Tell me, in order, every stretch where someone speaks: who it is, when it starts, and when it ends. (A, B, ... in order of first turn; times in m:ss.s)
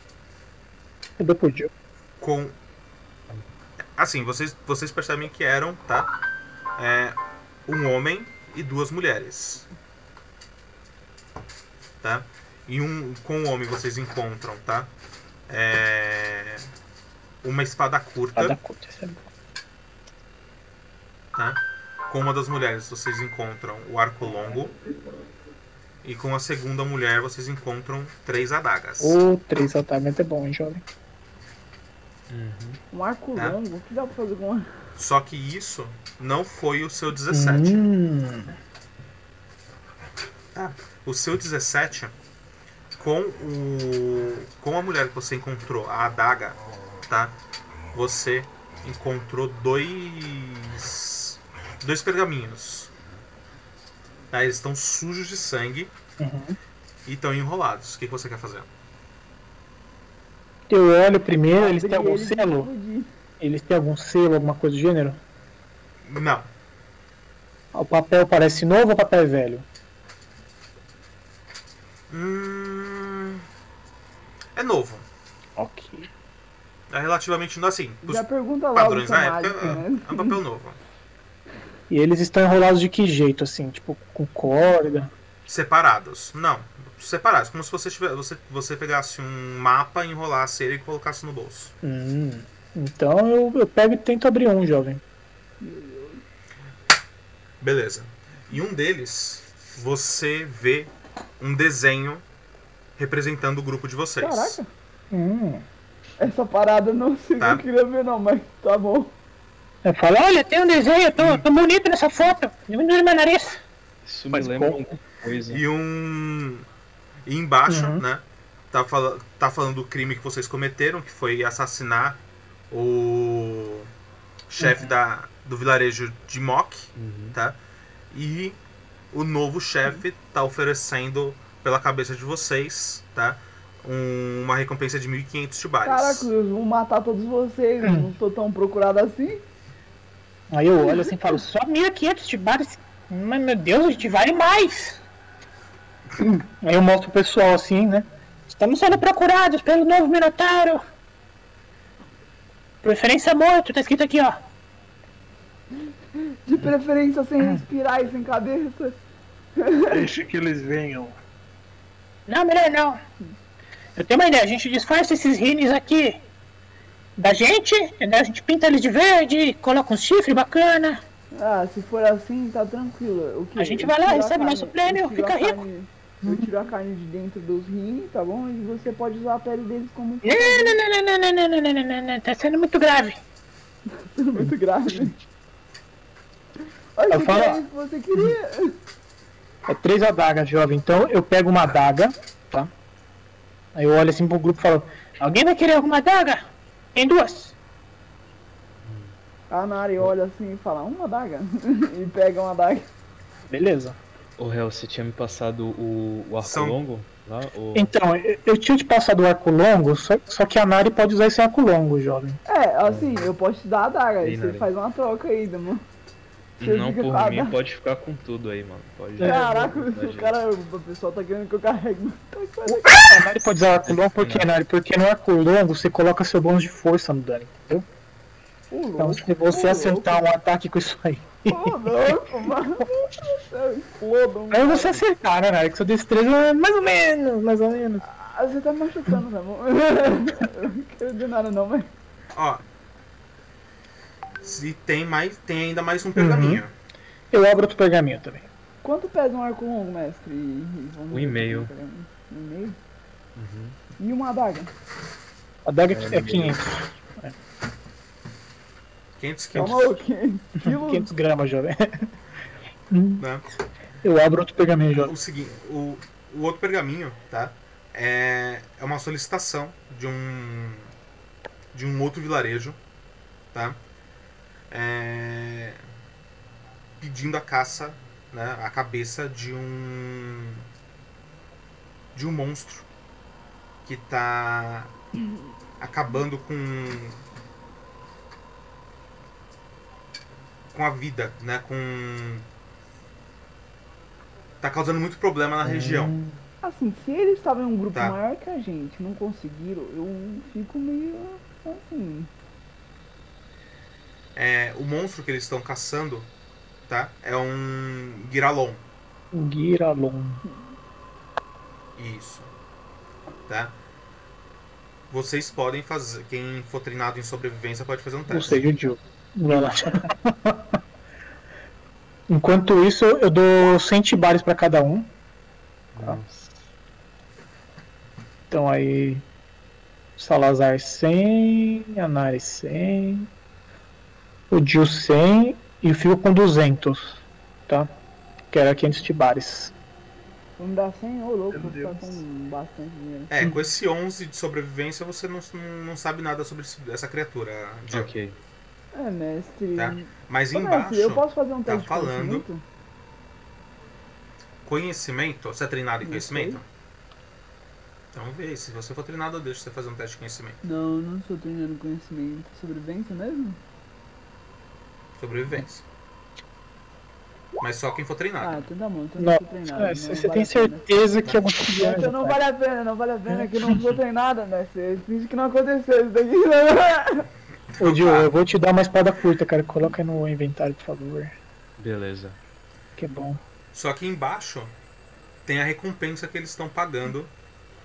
0:01.2-0:01.7 A
0:02.2-0:02.6 B
0:03.9-0:06.1 B
0:06.8-0:09.7 B
0:12.0-0:14.9 B
0:15.5-0:16.7 B
0:17.4-0:18.6 B
0:18.4-0:19.2 A
0:21.3-0:24.7 B
0:26.0-0:29.2 B
0:29.0-0:30.8 A
0:32.3-0:32.8 C
0:32.9-0:34.7 D
0:35.0-0:37.8 B
0:37.3-0:38.6 A
0:40.5-0:42.1 B
0:43.0-0:47.4 B
0:47.9-0:52.9 B
0:54.3-0:55.9 B
0:56.2-0:56.6 A
0:57.0-0:58.7 B
1:00.7-1:02.7 A
1:01.5-1:03.1 D
1:03.4-1:05.2 A
1:06.0-1:06.5 B
1:07.7-1:09.6 A
1:12.1-1:13.4 B
1:14.6-1:15.0 B
1:15.6-1:16.1 A
1:16.9-1:20.8 B
1:18.0-1:20.4 D
1:21.9-1:25.1 A
1:25.5-1:31.7 B
1:31.8-1:35.0 A
1:35.6-1:36.2 D
1:37.6-1:42.2 B
1:43.0-1:44.6 B
1:44.2-1:44.7 D
1:45.1-1:45.6 A
1:46.2-1:49.1 D
1:47.4-1:47.6 B
1:49.8-1:50.4 A
1:50.2-1:53.6 E
1:51.2-1:51.4 B
1:54.0-1:55.6 C
1:54.3-1:54.8 A
1:55.5-1:56.6 B
1:57.2-2:03.9 B
1:57.7-1:58.0 A
2:04.5-2:07.6 B
2:04.6-2:04.9 A
2:07.0-2:07.4 C
2:08.1-2:08.6 B
2:09.1-2:16.3 B
2:15.8-2:19.4 D
2:17.8-2:18.1 A
2:20.5-2:21.5 A
2:20.9-2:25.0 E
2:23.1-2:23.4 A
2:26.2-2:28.8 A
2:28.8-2:30.8 E
2:32.8-2:34.4 E
2:36.4-2:39.0 D
2:39.6-2:40.1 D
2:39.9-2:41.1 F
2:42.3-2:43.0 E
2:44.0-2:46.2 E
2:47.2-2:51.0 E
2:51.3-3:00.8 D
2:53.6-2:55.6 E
3:00.2-3:03.2 E
3:03.9-3:05.2 D
3:06.9-3:08.7 D
3:07.1-3:07.6 A
3:09.7-3:12.7 A
3:13.7-3:15.2 A
3:15.3-3:16.4 E
3:17.0-3:17.5 E
3:18.8-3:19.1 C
3:19.5-3:22.9 D
3:23.5-3:24.0 A
3:24.4-3:27.9 C
3:26.4-3:26.8 B
3:27.7-3:32.4 A
3:32.5-3:35.8 D
3:32.8-3:33.3 C
3:34.2-3:34.7 C
3:36.6-3:40.4 C
3:36.6-3:37.5 D
3:39.2-3:39.4 A
3:39.2-3:43.2 D
3:42.7-3:47.8 A
3:43.8-3:44.5 C
3:48.7-3:50.2 D
3:49.0-3:52.2 A
3:51.5-3:55.0 D
3:54.5-3:58.0 A
3:58.0-4:01.9 D
4:02.3-4:02.6 B
4:04.4-4:06.7 B
4:06.2-4:06.6 A
4:07.3-4:08.5 A
4:08.8-4:12.8 D
4:11.1-4:11.7 C
4:13.4-4:13.8 C
4:14.0-4:14.7 D
4:15.6-4:17.3 A
4:15.9-4:16.6 C
4:19.2-4:20.0 B
4:19.5-4:21.1 D
4:20.6-4:22.1 A
4:22.9-4:23.2 A
4:23.2-4:23.4 B
4:24.0-4:25.1 A
4:24.9-4:30.9 B
4:31.7-4:32.8 B
4:33.5-4:33.8 B
4:34.7-4:35.8 B
4:37.0-4:40.6 B
4:42.1-4:42.9 B
4:43.8-4:44.9 B
4:45.8-4:47.2 B
4:50.7-4:52.4 B
4:54.6-4:56.1 B
4:55.6-4:56.4 A
4:56.6-5:02.3 D
5:04.3-5:06.3 B
5:06.9-5:08.8 B
5:09.3-5:10.4 A
5:12.0-5:12.5 B
5:13.5-5:13.8 B
5:15.1-5:18.7 B
5:18.3-5:20.6 A
5:22.3-5:25.1 A
5:25.9-5:26.6 C
5:28.5-5:29.2 A
5:30.2-5:33.3 A
5:34.5-5:37.9 A
5:38.5-5:39.7 A
5:40.6-5:43.3 D
5:41.5-5:42.2 F
5:43.3-5:48.1 B
5:47.9-5:48.4 C
5:48.9-5:52.6 D
5:49.7-5:52.4 B
5:54.6-5:56.6 B
5:56.0-5:56.6 D
5:58.1-6:00.6 B
6:00.6-6:03.6 D
6:05.2-6:05.8 B
6:07.6-6:08.6 B
6:08.4-6:17.3 D
6:09.2-6:12.4 A
6:13.3-6:13.8 A
6:17.8-6:18.3 B
6:17.8-6:21.3 A
6:21.8-6:22.4 C
6:23.0-6:23.4 A
6:23.7-6:24.7 B
6:25.4-6:27.3 B